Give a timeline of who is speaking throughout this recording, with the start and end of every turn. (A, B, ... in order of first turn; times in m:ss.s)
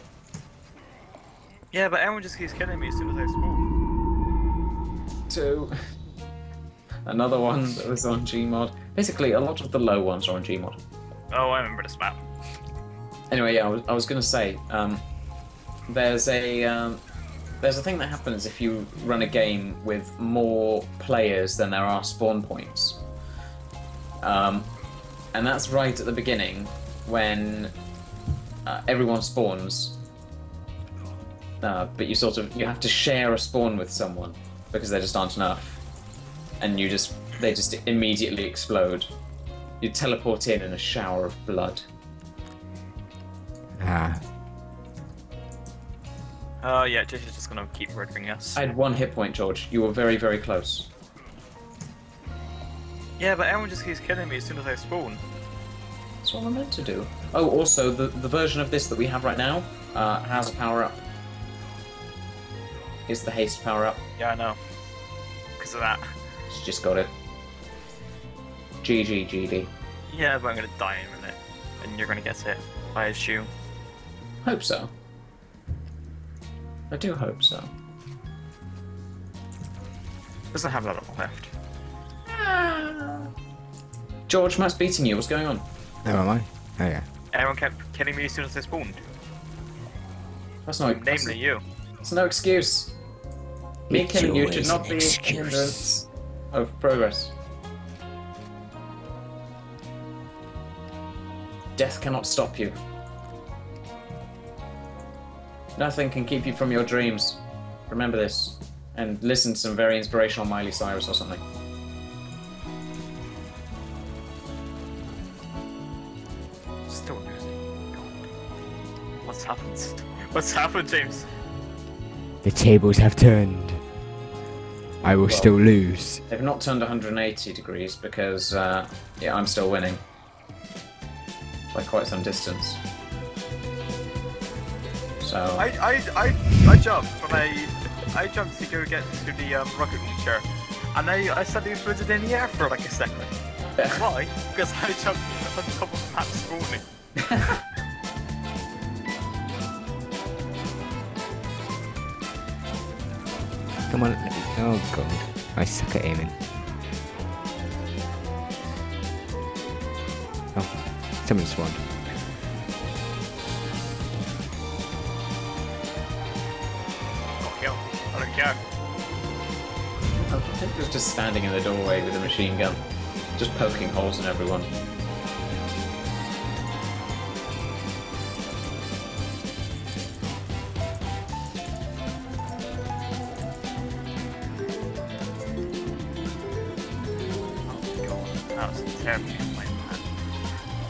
0:01.7-0:03.7 A
0:05.3-0:05.7 B
0:07.0-0:10.8 B
0:11.3-0:12.2 A
0:13.3-0:15.0 B
0:15.9-0:17.0 B
0:17.6-0:23.0 B
0:24.2-0:24.7 B
0:25.3-0:27.7 B
0:28.6-0:30.0 B
0:31.6-0:35.8 B
0:36.6-0:39.1 B
0:39.8-0:41.8 B
0:43.8-0:44.2 C
0:46.6-0:48.6 A
0:48.6-0:50.9 B
0:53.2-0:55.2 A
0:56.2-1:01.0 B
1:03.1-1:04.0 B
1:04.2-1:04.6 A
1:05.6-1:06.1 A
1:06.5-1:07.1 B
1:08.8-1:09.7 B
1:10.1-1:13.5 A
1:14.4-1:14.9 B
1:16.9-1:17.7 B
1:20.5-1:21.5 A
1:22.3-1:23.3 B
1:24.3-1:25.6 B
1:26.0-1:27.0 C
1:27.3-1:29.0 A
1:30.6-1:33.0 B
1:30.8-1:31.6 A
1:33.9-1:36.0 C
1:33.9-1:37.3 B
1:41.8-1:42.8 B
1:45.8-1:51.4 B
1:56.8-1:58.3 A
1:59.2-2:01.3 A
2:02.4-2:03.9 C
2:05.0-2:06.2 C
2:05.2-2:10.0 B
2:11.7-2:12.8 B
2:15.2-2:15.7 B
2:15.6-2:26.8 A
2:33.9-2:36.4 C
2:40.5-2:41.8 C
2:47.4-2:48.6 A
2:50.3-2:52.8 B
2:53.3-2:54.7 B
3:07.6-3:10.1 A